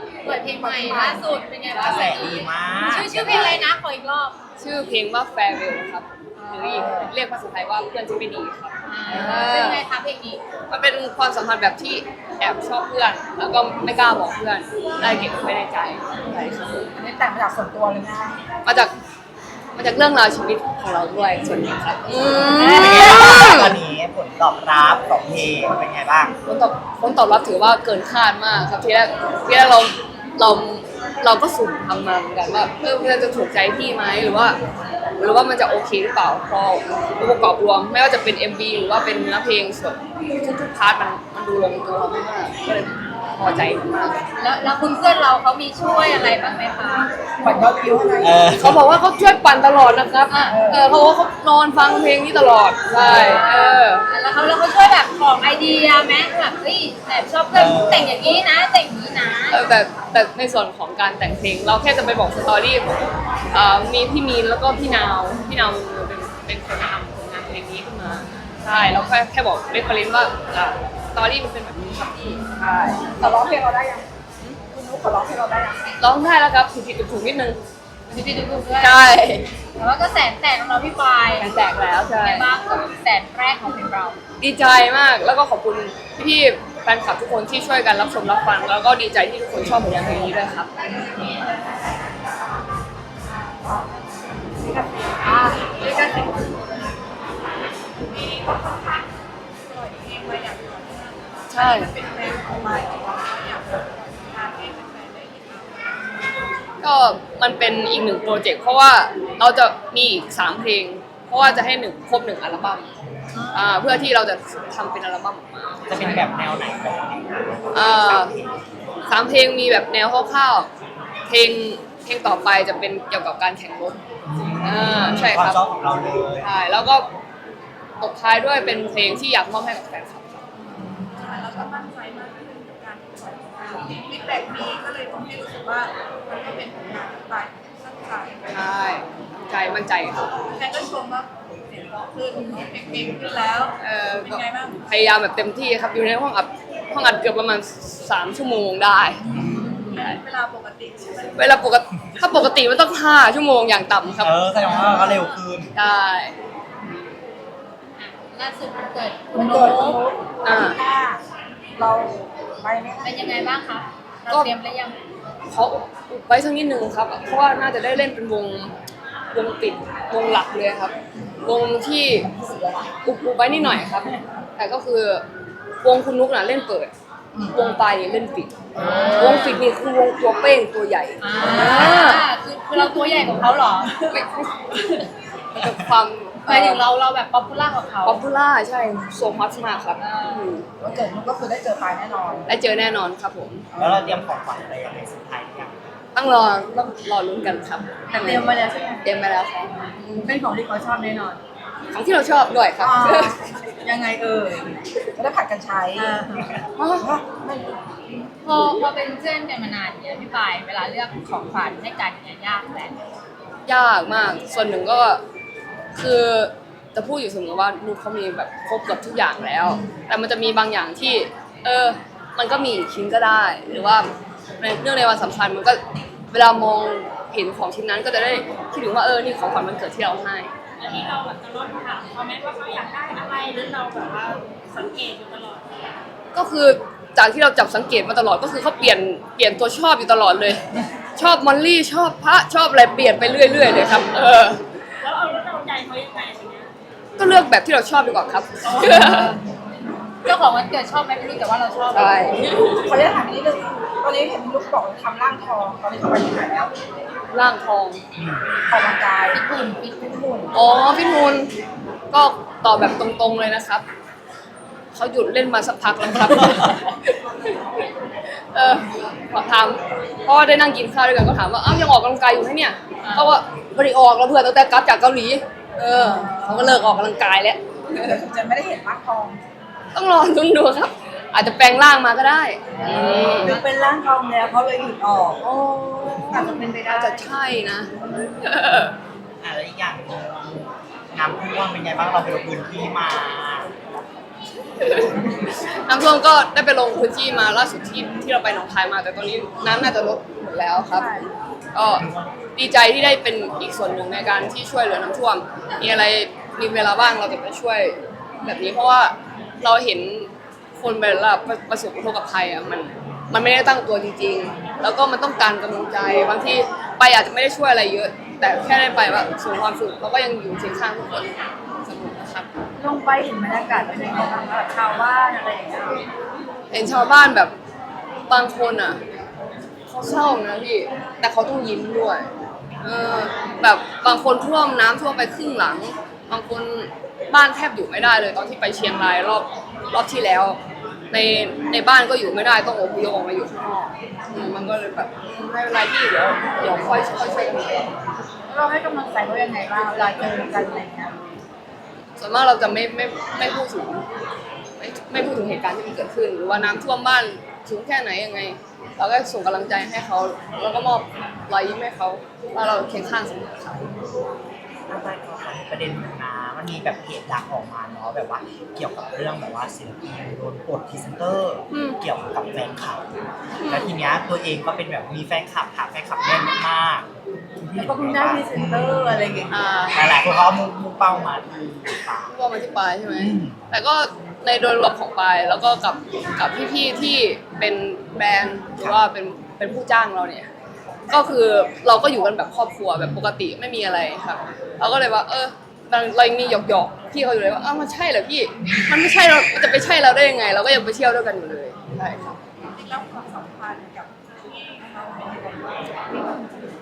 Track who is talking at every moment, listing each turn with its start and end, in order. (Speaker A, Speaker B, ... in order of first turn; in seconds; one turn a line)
Speaker A: 0.2-4.4
Speaker B: 0.6-1.3
Speaker C: 1.7-3.7
Speaker D: 1.8-2.2
Speaker D: 4.6-9.8
Speaker A: 6.4-7.1
Speaker A: 8.9-10.4
Speaker D: 10.7-16.9
Speaker B: 17.0-18.4
Speaker D: 18.6-18.9
Speaker D: 19.8-23.8
Speaker A: 22.4-23.2
Speaker C: 22.6-26.3
Speaker D: 26.5-34.6
Speaker D: 35.2-44.2
Speaker A: 44.4-47.1
Speaker B: 47.4-48.4
Speaker C: 48.2-48.8
Speaker D: 48.5-54.1
Speaker A: 50.3-50.6
Speaker B: 50.5-50.8
Speaker A: 52.9-59.6
Speaker C: 57.5-58.1
Speaker D: 59.5-73.0
Speaker B: 73.2-74.0
Speaker B: 74.6-75.9
Speaker D: 76.0-77.6
Speaker A: 78.1-79.2
Speaker D: 78.8-79.5
Speaker A: 79.8-81.5
Speaker D: 81.4-82.5
Speaker A: 82.2-84.2
Speaker D: 84.4-90.7
Speaker B: 94.6-96.0
Speaker E: 98.1-99.1
Speaker E: 99.6-106.5
Speaker D: 101.5-101.9
Speaker D: 106.8-112.9
Speaker A: 113.3-113.7
Speaker D: 113.5-116.3
Speaker C: 115.9-118.5
Speaker D: 117.7-118.3
Speaker D: 119.1-120.7
Speaker D: 121.3-124.0
Speaker C: 124.2-126.5
Speaker D: 124.6-125.6
Speaker D: 126.4-127.1
Speaker D: 128.0-130.4
Speaker E: 131.2-138.6
Speaker D: 138.5-140.3
Speaker E: 140.5-144.8
Speaker D: 143.8-150.2
Speaker C: 149.3-149.8
Speaker E: 149.9-151.5
Speaker D: 151.3-154.4
Speaker C: 154.2-155.7
Speaker A: 154.9-155.3
Speaker D: 155.8-156.3
Speaker A: 158.0-160.0
Speaker B: 159.3-161.2
Speaker D: 160.4-160.8
Speaker B: 161.8-163.2
Speaker A: 163.0-165.0
Speaker D: 165.5-168.7
Speaker D: 169.3-172.3
Speaker B: 172.3-172.9
Speaker D: 173.0-175.2
Speaker D: 175.8-176.9
Speaker D: 177.5-182.2
Speaker A: 178.8-179.6
Speaker B: 178.8-179.4
Speaker A: 181.2-183.9
Speaker D: 184.1-185.0
Speaker D: 185.5-186.8
Speaker A: 186.5-188.2
Speaker D: 188.1-190.7
Speaker A: 190.0-190.5
Speaker B: 190.8-192.4
Speaker D: 192.5-193.7
Speaker B: 193.7-194.1
Speaker C: 193.8-195.8
Speaker D: 196.2-200.3
Speaker B: 198.1-199.1
Speaker B: 200.2-201.4
Speaker D: 201.9-203.5
Speaker B: 202.8-207.8
Speaker D: 206.8-207.1
Speaker A: 208.4-212.9
Speaker D: 213.7-215.2
Speaker D: 215.9-225.8
Speaker D: 226.3-230.5
Speaker F: 230.8-235.8
Speaker D: 236.3-240.6
Speaker D: 241.2-244.6
Speaker F: 245.0-246.7
Speaker D: 247.2-249.4
Speaker A: 248.7-249.3
Speaker A: 250.2-252.5
Speaker D: 251.9-252.4
Speaker B: 252.6-256.7
Speaker D: 257.3-258.0
Speaker C: 258.2-258.4
Speaker B: 258.7-259.5
Speaker A: 259.3-260.5
Speaker B: 260.1-260.5
Speaker D: 260.5-261.5
Speaker D: 262.1-263.8
Speaker D: 264.9-267.9
Speaker D: 268.5-278.2
Speaker B: 276.0-276.9
Speaker B: 277.9-279.4
Speaker D: 279.9-283.6
Speaker B: 282.8-287.2
Speaker D: 286.0-288.9
Speaker C: 289.4-293.7
Speaker D: 294.8-321.3
Speaker B: 300.9-301.3
Speaker C: 302.0-302.4
Speaker D: 321.9-322.5
Speaker B: 322.8-326.0
Speaker D: 326.7-327.5
Speaker D: 328.3-329.0
Speaker D: 329.9-332.3
Speaker D: 332.8-340.6
Speaker D: 341.1-347.9
Speaker B: 348.5-351.4
Speaker D: 352.2-354.0
Speaker D: 354.8-363.9
Speaker C: 364.9-373.0
Speaker D: 371.7-372.0
Speaker D: 373.6-373.9
Speaker C: 373.7-377.1
Speaker C: 377.6-382.3
Speaker B: 377.8-379.5
Speaker D: 379.5-380.1
Speaker D: 382.3-390.5
Speaker C: 383.2-383.6
Speaker D: 391.1-402.4
Speaker E: 402.7-406.7